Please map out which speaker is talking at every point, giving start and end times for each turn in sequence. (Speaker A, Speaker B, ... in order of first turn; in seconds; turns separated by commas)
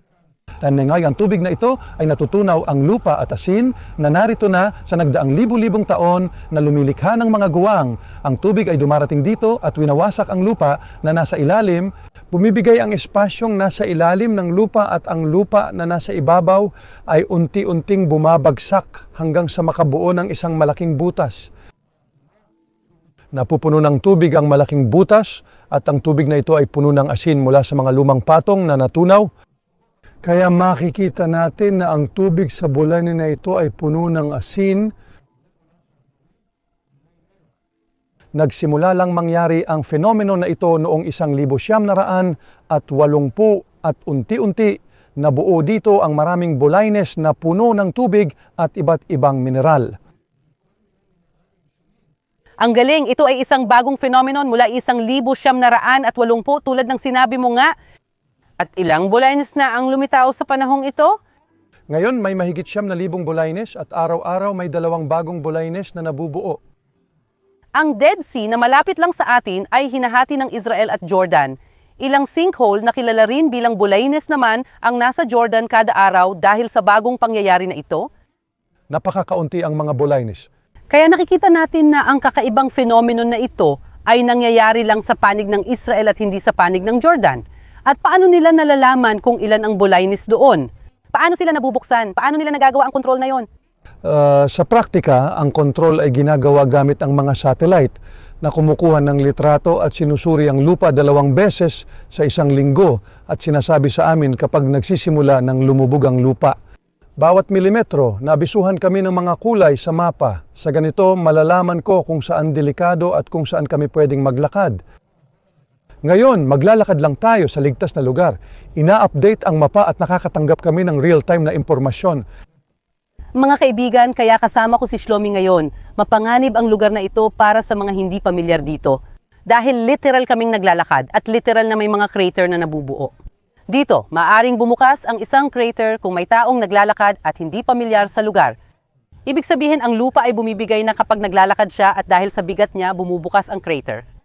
Speaker A: 0.6-21.5, Speaker A: 23.3-29.3, Speaker A: 30.2-34.9, Speaker A: 38.4-49.9, Speaker B: 52.6-57.7, Speaker B: 58.6-61.1, Speaker A: 61.9-66.6, Speaker B: 67.8-78.0, Speaker A: 78.9-80.5, Speaker B: 80.9-93.5, Speaker A: 94.0-106.6, Speaker A: 107.2-114.8, Speaker A: 116.0-122.2, Speaker B: 123.4-133.1, Speaker B: 133.7-138.5, Speaker B: 139.3-144.0